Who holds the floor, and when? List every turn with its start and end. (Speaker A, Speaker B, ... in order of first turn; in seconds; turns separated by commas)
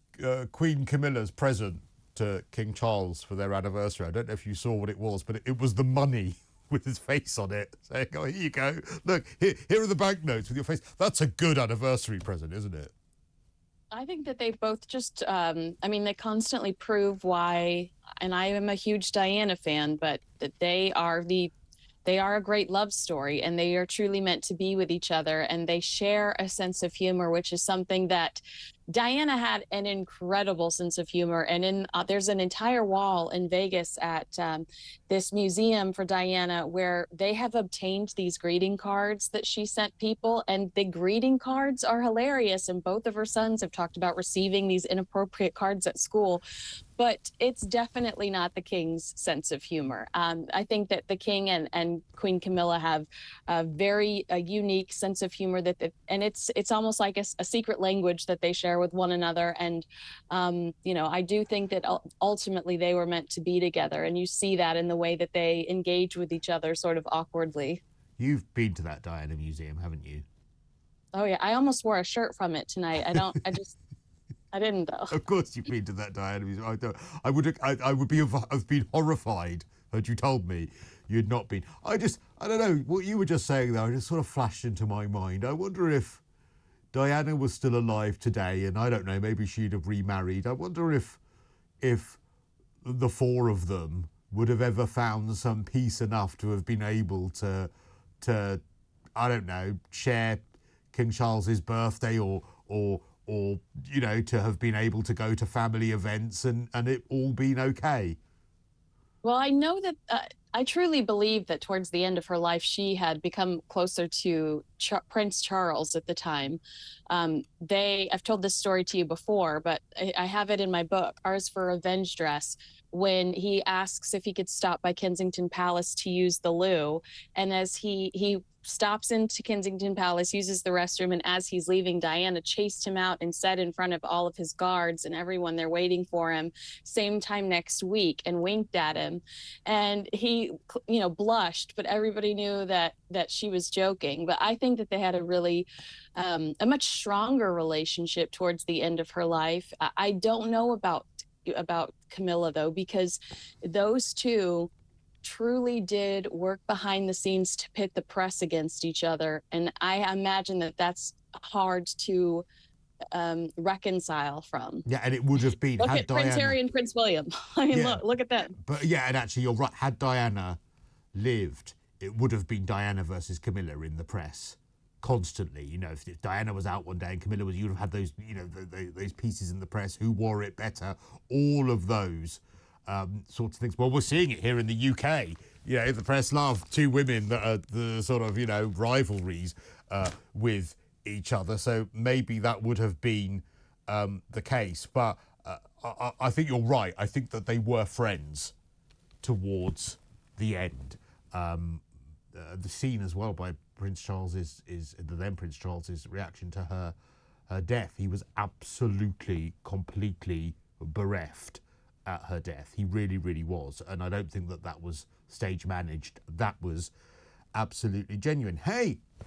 Speaker A: 0.2-12.9, Speaker B: 13.9-21.5, Speaker B: 22.0-46.4, Speaker B: 47.0-67.8, Speaker A: 68.2-70.2, Speaker B: 71.1-73.7, Speaker B: 74.5-75.2, Speaker A: 75.1-86.2, Speaker A: 86.9-91.2, Speaker A: 91.8-92.2, Speaker A: 92.8-97.7, Speaker A: 98.2-98.6, Speaker A: 99.2-100.4, Speaker A: 100.9-108.2, Speaker B: 109.2-154.7, Speaker B: 155.2-162.4, Speaker B: 163.1-164.8, Speaker A: 164.8-166.6, Speaker B: 165.8-168.5, Speaker A: 167.7-170.6, Speaker A: 171.1-198.5, Speaker A: 199.2-206.9, Speaker A: 207.5-216.9, Speaker A: 217.5-219.0